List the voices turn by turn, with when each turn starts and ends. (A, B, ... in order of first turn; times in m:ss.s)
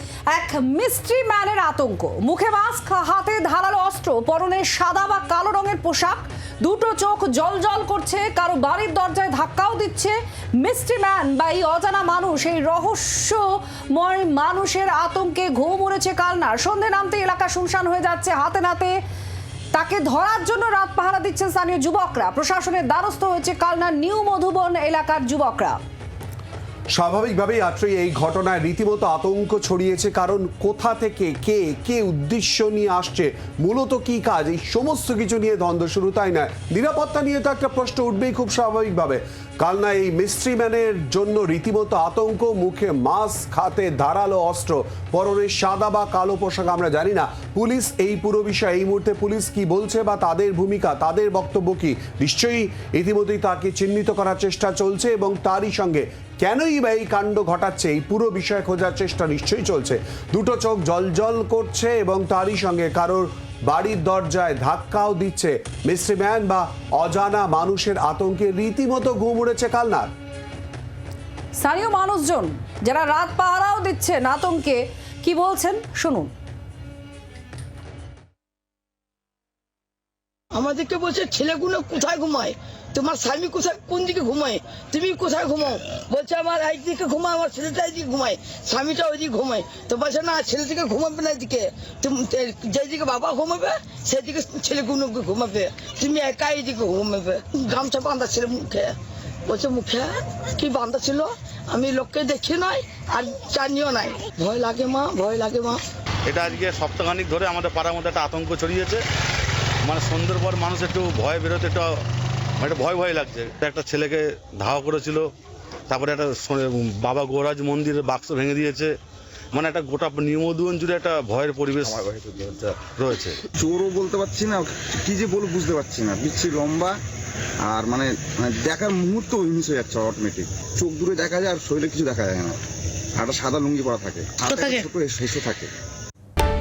0:00.3-0:19.0 A
0:19.7-0:25.8 A
0:27.0-1:10.1 B
1:11.6-1:16.3 A
1:20.5-1:45.8 C
1:46.3-1:49.0 D
1:49.8-1:52.0 D
1:52.6-1:55.3 D
1:55.9-1:58.9 D
1:59.5-2:03.4 D
2:01.9-2:02.7 E
2:03.6-2:07.0 E
2:07.6-2:12.6 E
2:13.2-2:15.7 E